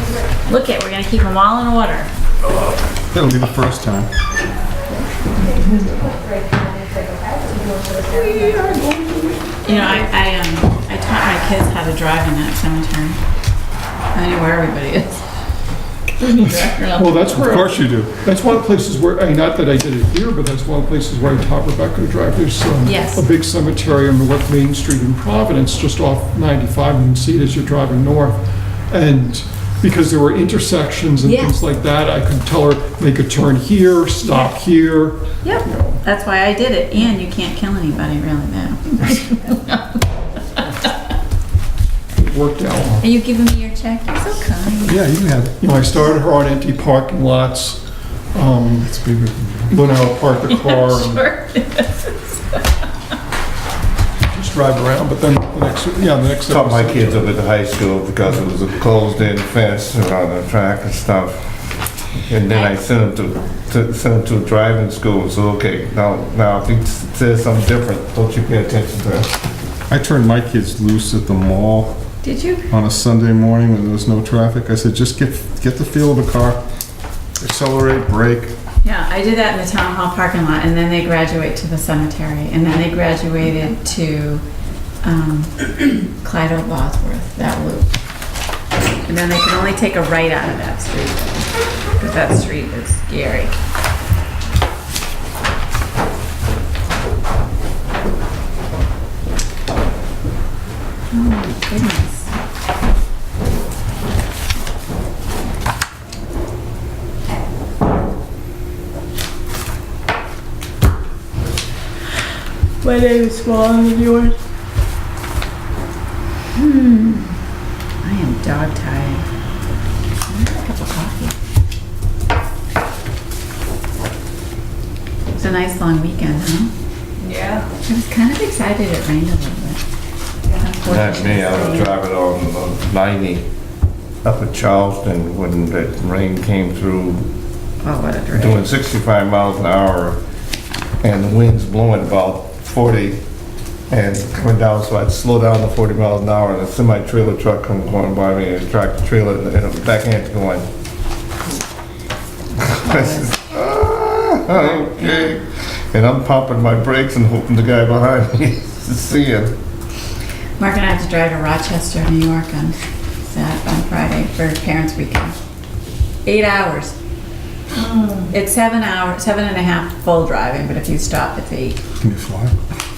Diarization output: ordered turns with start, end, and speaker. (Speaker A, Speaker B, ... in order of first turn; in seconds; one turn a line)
Speaker A: 0.5-2.1
Speaker B: 3.1-4.1
Speaker C: 5.8-8.9
Speaker D: 8.1-9.3
Speaker A: 9.6-13.2
Speaker A: 14.1-15.2
Speaker A: 16.1-17.6
Speaker D: 16.9-36.0
Speaker B: 17.4-18.1
Speaker A: 22.8-23.2
Speaker A: 31.2-31.6
Speaker A: 35.4-40.0
Speaker D: 42.2-43.0
Speaker A: 43.0-45.0
Speaker B: 44.9-45.6
Speaker D: 45.6-47.8
Speaker D: 48.3-48.9
Speaker B: 48.9-49.7
Speaker D: 49.7-51.2
Speaker A: 50.5-52.6
Speaker D: 54.3-57.3
Speaker E: 56.5-61.4
Speaker E: 62.3-69.3
Speaker B: 69.9-72.0
Speaker A: 72.2-72.7
Speaker B: 72.7-76.6
Speaker B: 77.4-78.5
Speaker A: 78.8-84.4
Speaker A: 85.0-87.9
Speaker A: 89.0-91.5
Speaker A: 92.0-93.5
Speaker A: 101.1-102.3
Speaker C: 112.8-114.3
Speaker A: 112.9-113.3
Speaker A: 116.5-117.4
Speaker A: 118.0-119.2
Speaker A: 120.3-121.3
Speaker A: 125.3-126.7
Speaker C: 127.2-127.7
Speaker A: 127.8-129.8
Speaker A: 130.6-132.0
Speaker E: 130.8-133.5
Speaker E: 134.2-137.3
Speaker A: 137.8-138.7
Speaker E: 138.3-140.2
Speaker E: 141.0-143.2
Speaker E: 143.9-150.7
Speaker E: 152.6-159.5
Speaker A: 152.7-153.4
Speaker A: 154.5-155.3
Speaker A: 160.6-165.4
Speaker A: 166.2-166.9
Speaker C: 167.7-168.3
Speaker A: 168.3-171.8
Speaker B: 172.0-172.6